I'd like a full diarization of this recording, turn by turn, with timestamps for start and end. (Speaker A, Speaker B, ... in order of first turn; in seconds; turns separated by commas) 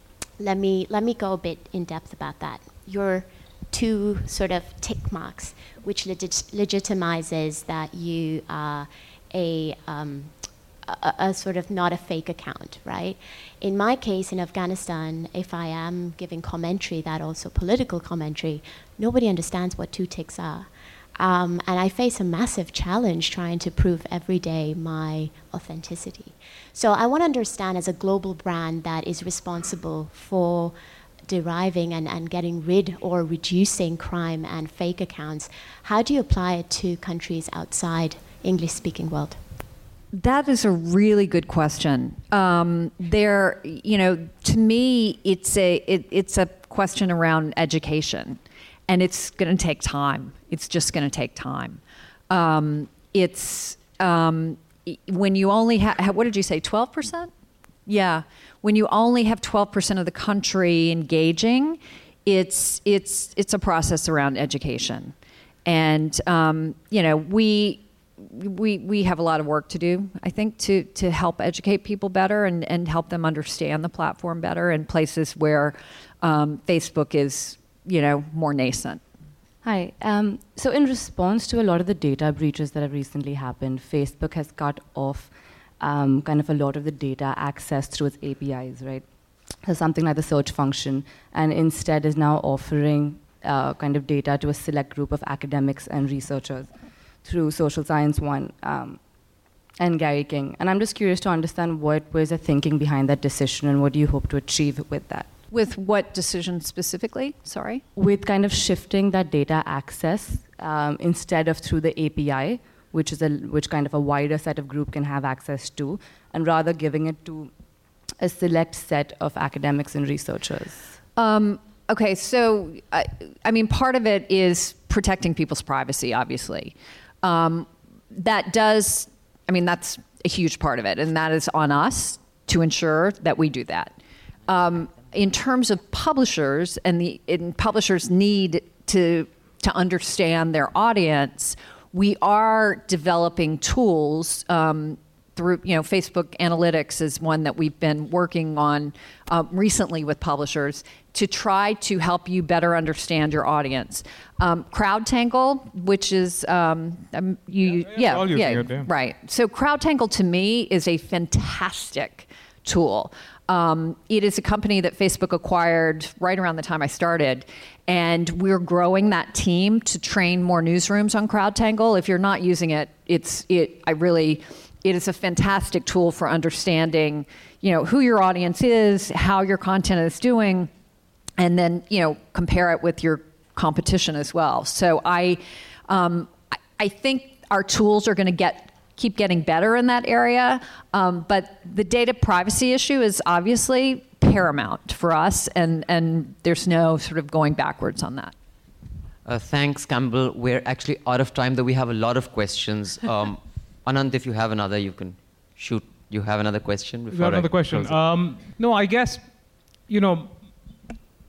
Speaker A: 0.4-39.4, Speaker B: 40.1-57.3, Speaker B: 57.9-65.1, Speaker B: 65.7-79.0, Speaker C: 79.6-89.1, Speaker C: 89.6-99.0, Speaker C: 99.8-105.3, Speaker B: 105.5-107.8, Speaker C: 108.0-117.5, Speaker C: 118.2-120.9, Speaker B: 121.2-133.9, Speaker B: 134.5-180.7, Speaker D: 157.6-158.9, Speaker B: 181.4-198.3, Speaker E: 199.2-208.0, Speaker D: 207.1-210.8